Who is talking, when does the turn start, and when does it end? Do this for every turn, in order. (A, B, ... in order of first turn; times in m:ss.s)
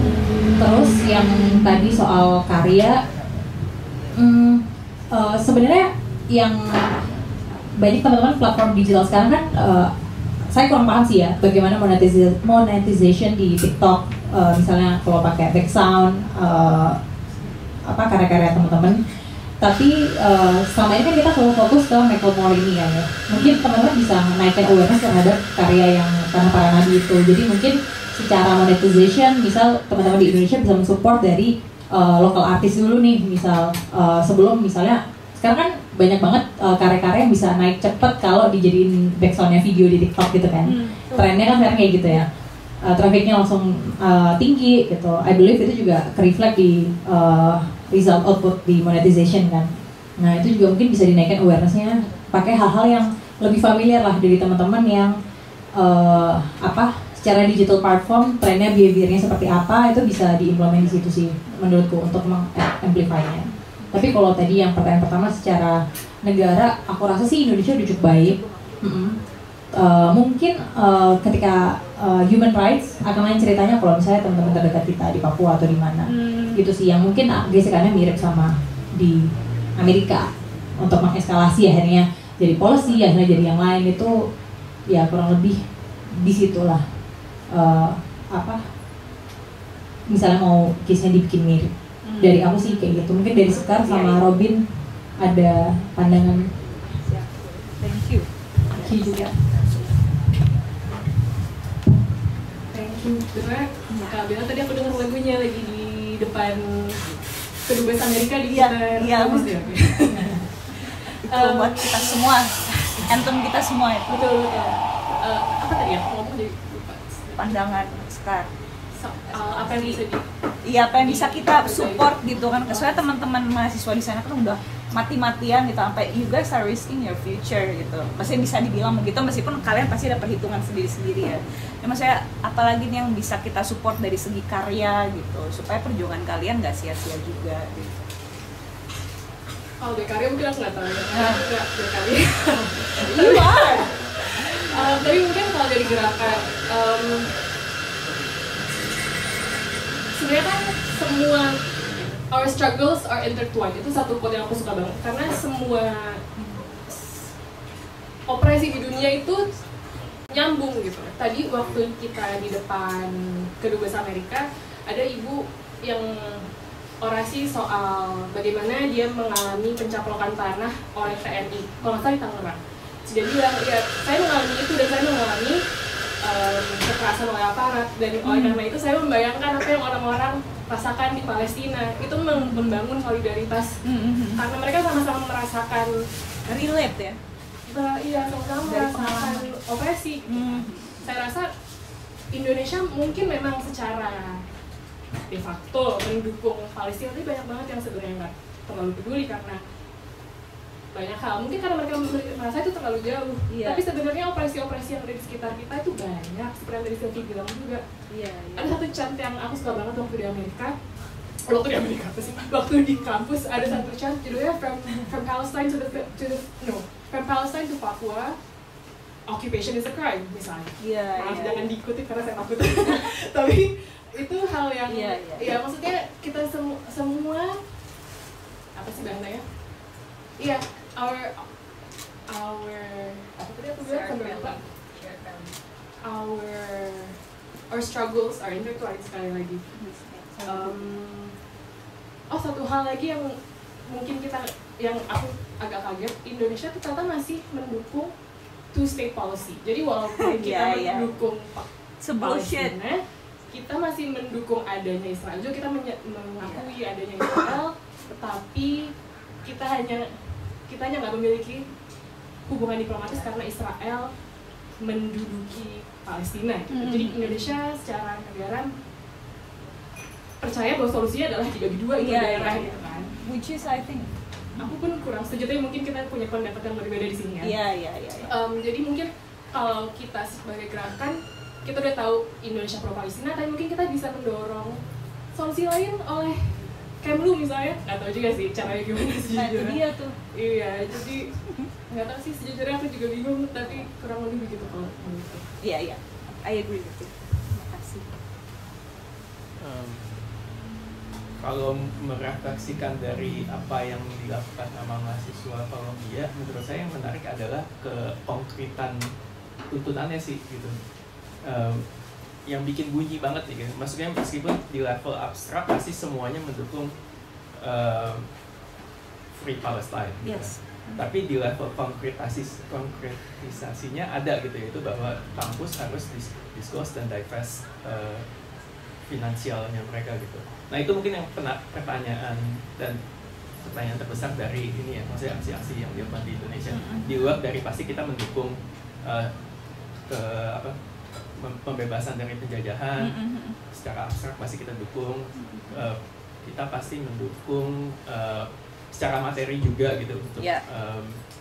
0:00.6-0:03.0 A
0:04.1-0:07.0 A
0:07.8-0:09.9 A
0:10.5-0:17.0 A
0:17.8-0:19.0 A
0:19.6-0:42.2 A
0:23.3-0:23.6 B
0:40.6-0:41.5 B
0:42.8-0:55.1 A
0:55.8-1:09.2 A
1:08.4-1:08.6 B
1:09.7-1:19.2 A
1:16.0-1:16.6 B
1:19.8-1:24.2 A
1:24.9-1:25.6 A
1:26.1-1:26.8 A
1:27.5-1:28.6 A
1:30.1-1:34.6 A
1:32.0-1:32.9 B
1:33.5-1:34.2 B
1:35.2-1:36.5 A
1:36.9-1:40.0 B
1:38.7-1:39.3 A
1:42.7-1:47.0 C
1:43.9-1:44.2 B
1:47.6-1:52.2 C
1:48.5-1:54.1 B
1:54.1-1:57.5 C
1:57.3-1:58.5 B
1:59.0-2:00.3 C
1:59.3-2:00.0 B
2:00.6-2:17.9 B
2:01.0-2:03.0 C
2:19.8-2:27.3 C
2:21.1-2:21.4 B
2:23.0-2:23.9 B
2:30.1-2:31.6 C
2:32.3-2:36.2 C
2:36.9-2:37.1 C
2:38.3-2:39.5 C
2:40.3-2:46.5 C
2:47.0-2:55.6 C
2:56.2-3:03.8 C
2:58.2-2:58.6 B
3:02.3-3:02.8 B
3:03.8-3:04.4 B
3:04.4-3:05.9 C
3:06.5-3:07.2 B
3:07.7-3:11.5 C
3:08.6-3:09.5 B
3:10.3-3:11.0 B
3:12.3-3:14.4 C
3:15.3-3:19.6 C
3:20.9-3:27.8 C
3:23.5-3:23.8 B
3:28.1-3:28.8 B
3:28.5-3:30.7 C
3:31.5-3:38.4 C
3:39.3-3:47.5 C
3:40.8-3:41.7 B
3:44.9-3:45.6 B
3:48.7-3:49.4 C
3:50.4-3:51.4 C
3:52.3-3:54.6 C
3:53.7-3:55.6 B
3:56.0-3:57.2 C
3:57.7-3:59.6 C
3:59.7-4:00.9 B
4:00.4-4:01.3 C
4:02.3-4:03.3 C
4:03.9-4:08.1 C
4:08.7-4:11.6 C
4:10.1-4:11.2 B
4:12.0-4:12.8 B
4:12.1-4:18.9 C
4:16.4-4:17.5 B
4:19.4-4:20.0 C
4:20.7-4:21.6 C
4:22.5-4:24.1 C
4:24.8-4:28.7 C
4:26.7-4:27.5 B
4:30.4-4:33.1 C
4:32.0-4:34.1 B
4:34.6-4:37.5 C
4:37.4-4:38.3 B
4:38.3-4:44.8 C
4:45.3-4:46.4 C
4:47.0-4:49.8 C
4:49.3-4:50.2 B
4:50.3-4:51.3 C
4:51.9-4:55.4 C
4:55.6-4:58.1 B
4:59.6-5:00.1 D
5:01.4-5:09.0 D
5:09.7-5:10.8 D
5:11.4-5:11.8 D
5:12.4-5:16.9 D
5:17.6-5:18.2 D
5:19.4-5:28.2 D
5:20.2-5:21.0 B
5:29.1-5:33.0 D
5:33.6-5:39.3 D
5:36.7-5:37.2 B
5:40.1-5:40.7 D
5:41.4-5:43.1 D
5:43.0-5:43.6 B
5:43.7-5:51.2 D
5:45.4-5:45.8 B
5:50.4-5:50.6 B